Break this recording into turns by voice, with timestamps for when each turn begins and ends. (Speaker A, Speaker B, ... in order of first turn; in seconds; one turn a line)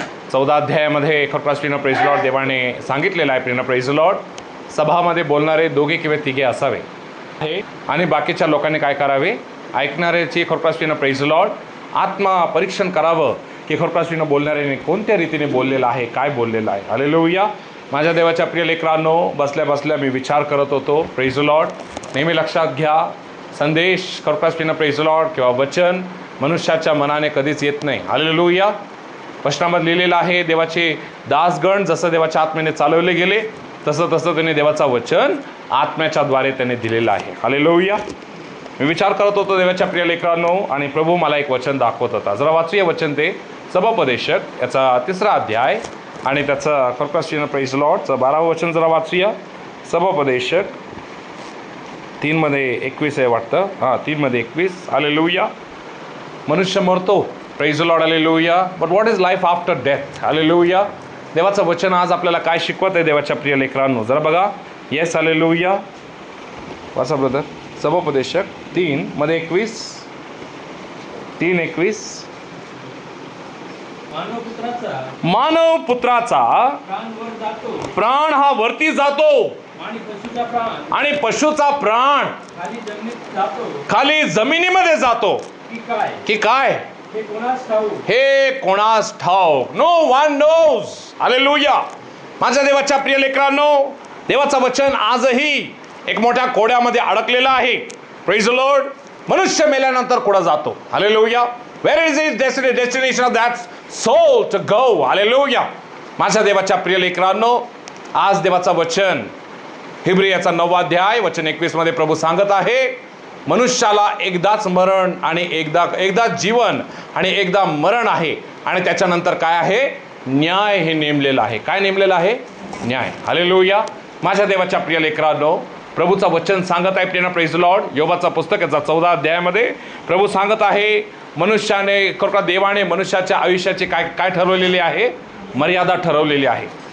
Speaker A: 0.3-6.8
Speaker A: 7.4-28.7
Speaker A: 29.4-38.0
Speaker A: 38.8-50.7
Speaker A: 52.2-55.5
Speaker A: 56.5-65.8
Speaker A: 66.9-70.0
Speaker A: 71.4-72.3
Speaker B: 74.1-75.1
Speaker A: 75.2-76.8
Speaker B: 76.8-77.9
Speaker A: 77.9-79.6
Speaker B: 79.8-81.0
Speaker A: 80.9-82.3
Speaker B: 82.5-83.9
Speaker A: 83.9-85.5
Speaker B: 85.7-86.2
Speaker A: 86.2-86.8
Speaker B: 87.1-88.0
Speaker A: 88.0-91.8
Speaker A: 92.4-105.7
Speaker A: 106.2-109.3
Speaker A: 110.0-136.7